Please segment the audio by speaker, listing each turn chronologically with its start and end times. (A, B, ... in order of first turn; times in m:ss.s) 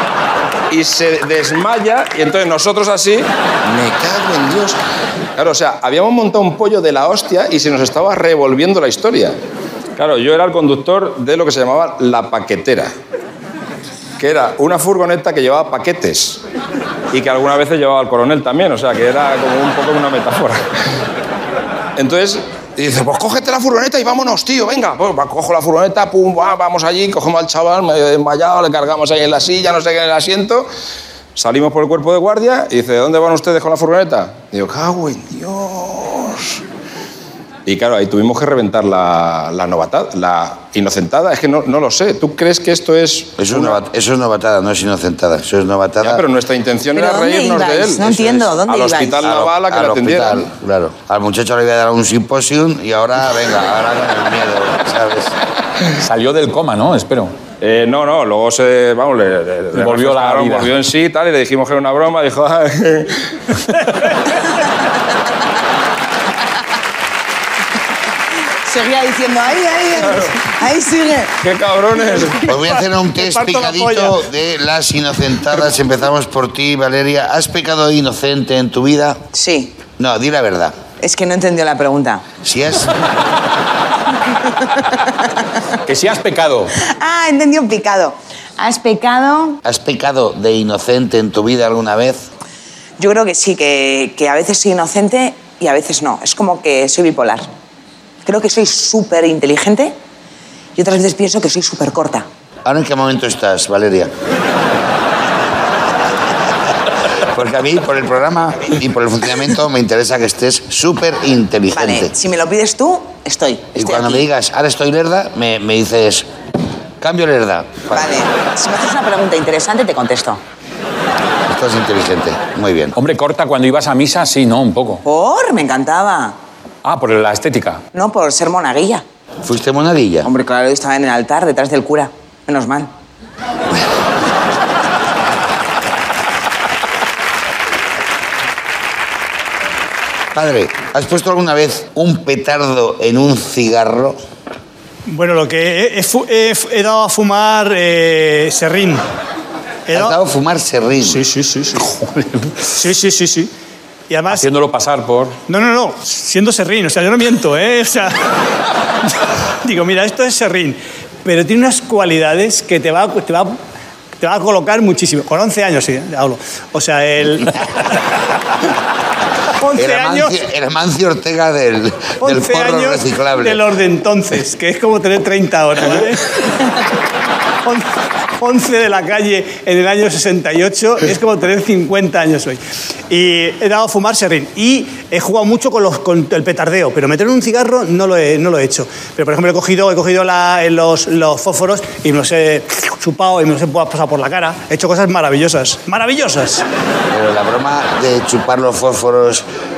0:00.7-0:04.8 A
0:05.4-0:09.4 A
0:10.0-0:12.9 A
0:14.2-0:16.4 A
0:17.1-0:20.6 A
0:22.0-0:30.7 A
0:31.4-0:36.6 A
0:37.7-0:43.8 A
0:43.4-0:46.2 B
0:46.0-0:50.4 A
0:46.9-0:49.3 C
0:49.2-0:55.4 B
0:56.0-0:57.3 D
0:57.6-1:03.3 A
0:59.7-1:00.7 D
1:08.6-1:11.3 C
1:10.0-1:10.4 A
1:11.4-1:12.4 A
1:12.4-1:19.2 B
1:12.5-1:14.2 E
1:19.3-1:19.8 C
1:20.0-1:20.8 B
1:21.0-1:22.2 C
1:22.4-1:22.9 B
1:24.8-1:25.0 C
1:25.9-1:26.7 D
1:26.8-1:29.6 C
1:29.6-1:32.2 B
1:33.0-1:37.5 C
1:38.2-1:39.9 C
1:40.8-1:42.2 C
1:42.6-1:44.1 B
1:47.3-1:52.1 B
1:51.7-1:54.2 C
1:53.7-1:56.3 B
1:57.0-1:58.2 B
1:57.9-2:00.4 C
2:01.5-2:02.9 B
2:02.9-2:05.0 D
2:05.0-2:06.3 C
2:06.8-2:07.8 D
2:07.9-2:09.0 C
2:09.4-2:10.3 B
2:10.2-2:12.9 C
2:20.3-2:24.2 B
2:25.1-2:29.0 E
2:29.9-2:30.2 E
2:29.9-2:31.2 B
2:31.2-2:32.7 D
2:32.7-2:33.5 E
2:34.1-2:34.4 E
2:34.3-2:35.4 D
2:35.5-2:38.2 E
2:39.2-2:43.6 E
2:44.2-2:47.9 E
2:49.6-2:50.4 E
2:49.7-2:53.6 B
2:52.2-2:56.3 E
2:57.6-3:16.6 E
3:17.1-3:19.4 B